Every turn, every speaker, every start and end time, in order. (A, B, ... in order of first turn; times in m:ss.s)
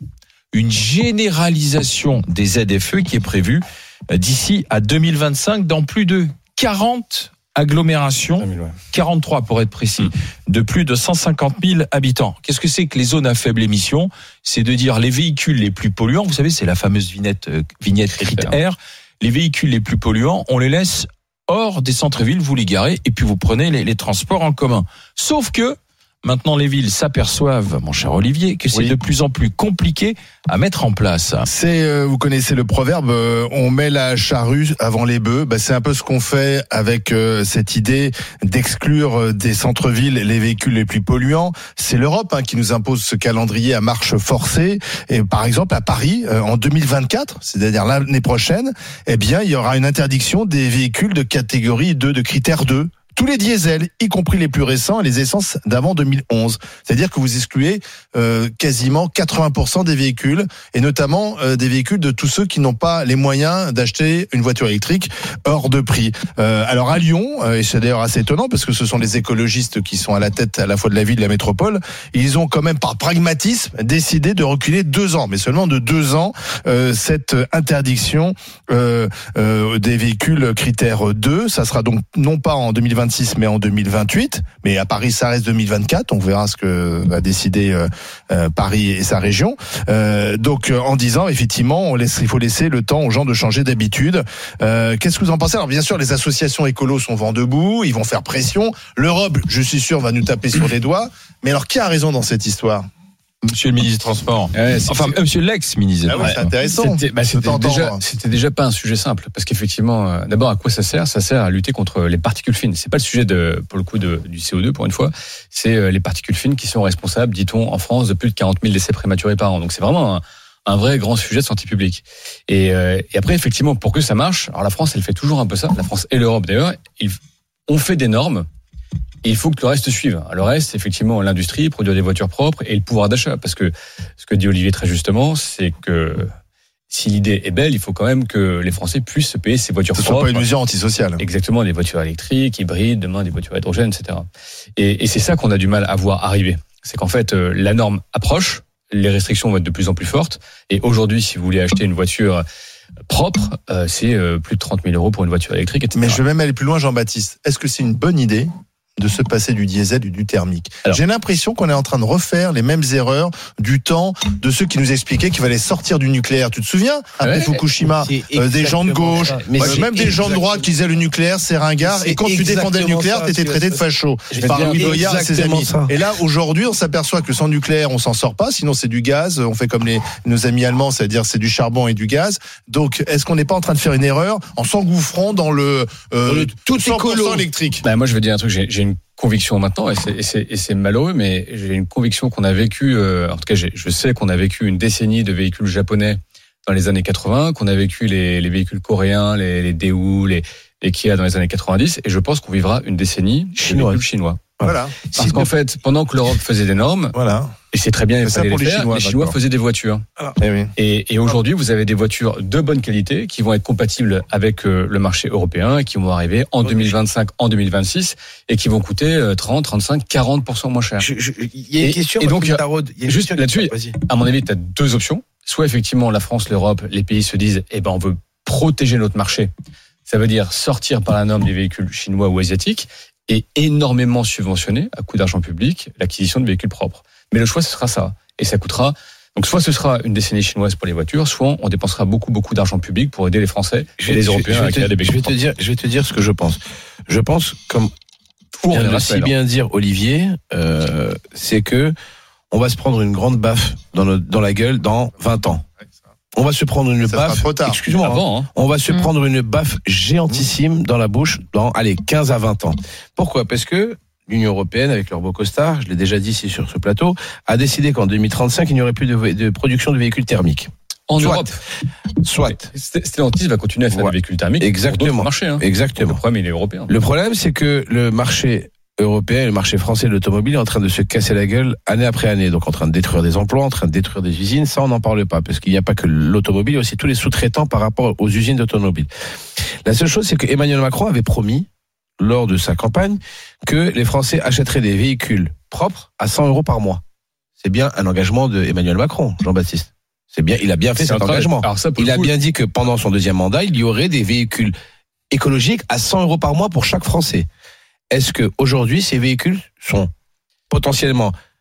0:00.5-0:31.5 A
0:08.4-0:08.8 B
0:18.1-0:18.6 B
0:31.5-1:42.9 C
1:43.5-1:46.5 A
1:44.5-1:45.2 B
1:46.1-1:48.0 C
1:46.2-2:08.5 B
2:09.2-2:16.3 B
2:16.9-2:20.5 B
2:20.0-2:21.2 C
2:21.2-2:32.4 B
2:33.1-2:36.2 B
2:35.9-3:07.8 C
2:47.2-2:47.6 B
2:47.8-2:50.7 D
2:49.5-2:50.1 B
2:51.8-2:53.9 D
2:54.3-2:55.0 B
2:54.4-2:55.9 D
3:06.3-3:07.5 D
3:07.8-3:24.4 B
3:23.6-3:24.0 D
3:24.6-3:25.0 C
3:25.1-3:27.2 B
3:25.2-3:25.5 D
3:27.1-3:27.5 C
3:27.7-3:30.0 B
3:28.2-3:29.4 C
3:30.4-3:30.7 C
3:30.8-3:41.1 B
3:36.6-3:37.0 D
3:41.0-3:44.0 D
3:41.8-3:49.5 B
3:50.1-4:05.4 B
4:04.0-4:07.9 D
4:08.6-4:09.3 B
4:08.7-4:11.9 D
4:12.5-4:15.6 D
4:16.3-4:31.5 D
4:17.0-4:17.8 C
4:18.0-4:18.5 B
4:31.1-4:31.6 B
4:32.2-4:32.7 D
4:32.5-4:36.9 B
4:33.9-4:36.2 D
4:36.9-4:49.1 D
4:49.8-4:51.7 D
4:52.2-4:57.0 D
4:57.6-5:04.7 D
5:01.0-5:02.3 B
5:05.3-5:07.5 D
5:08.1-5:10.1 D
5:10.7-5:11.3 D